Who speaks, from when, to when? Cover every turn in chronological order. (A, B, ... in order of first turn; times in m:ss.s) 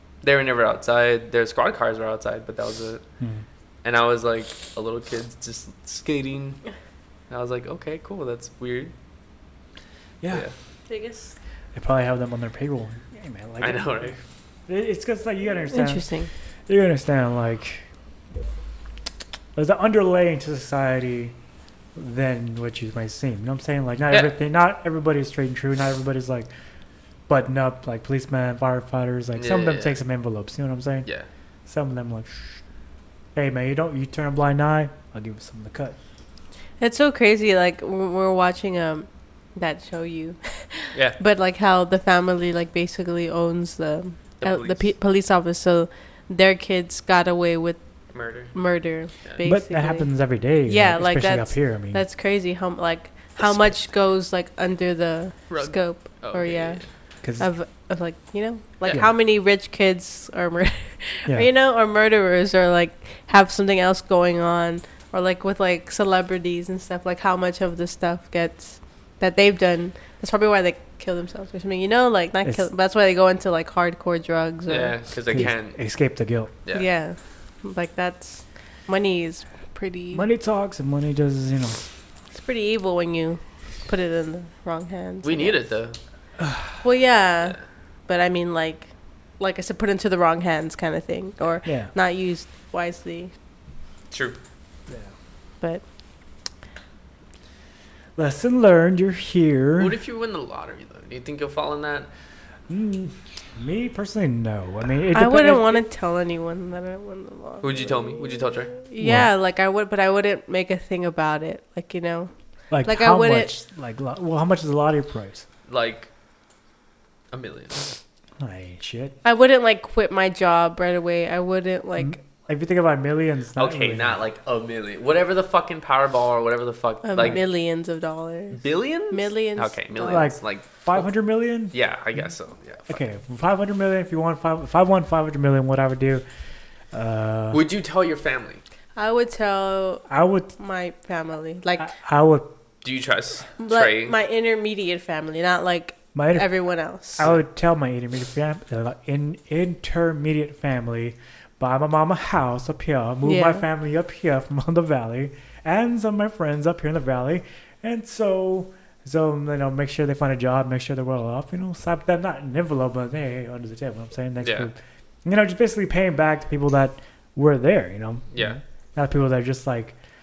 0:00.2-0:03.0 A
0:03.8-0:06.6 A
0:07.3-0:08.9 A
0:10.2-0:10.5 B
0:10.9-0:11.4 C
0:11.7-0:16.1 B
0:13.6-0:14.2 A
0:15.7-0:16.3 C
0:16.7-0:17.9 B
0:19.6-0:21.4 B
0:21.9-0:26.5 B
0:27.3-0:31.1 B
0:29.4-0:30.0 A
0:31.6-0:32.6 B
0:33.4-0:36.0 B
0:36.8-0:47.8 C
0:44.4-0:44.9 A
0:48.1-0:48.5 A
0:48.5-0:50.1 C
0:49.4-0:52.0 B
0:50.6-0:56.8 C
0:55.5-0:56.9 A
0:57.2-0:57.5 B
0:57.4-1:15.4 C
1:14.7-1:15.8 A
1:15.3-1:16.5 B
1:16.7-1:20.2 C
1:20.1-1:21.9 B
1:22.3-1:25.6 C
1:25.2-1:26.0 A
1:26.4-1:26.8 B
1:26.8-1:27.6 C
1:28.1-1:33.3 C
1:31.6-1:31.9 B
1:34.1-1:34.4 A
1:34.9-1:35.1 B
1:38.2-1:40.0 B
1:39.8-1:42.1 A
1:42.7-1:45.8 B
1:45.1-1:52.3 C
1:47.6-1:48.8 A
1:49.0-1:49.3 B
1:52.7-1:55.4 B
1:52.8-1:53.5 C
1:55.7-1:56.1 A
1:57.3-1:58.0 A
1:58.4-1:59.2 B
1:59.2-2:02.2 C
2:02.0-2:04.2 B
2:03.6-2:07.4 A
2:07.0-2:10.3 C
2:08.6-2:11.1 A
2:10.0-2:11.8 B
2:11.7-2:13.1 A
2:12.9-2:16.2 B
2:16.9-2:17.6 B
2:17.5-2:18.6 A
2:19.0-2:20.1 C
2:20.1-2:20.5 B
2:20.6-2:21.9 C
2:21.8-2:22.5 B
2:22.8-2:24.1 A
2:23.6-2:27.2 C
2:26.1-2:26.5 B
2:27.2-2:50.0 B
2:33.2-2:33.6 C
2:44.4-2:44.7 A
2:48.3-2:48.6 A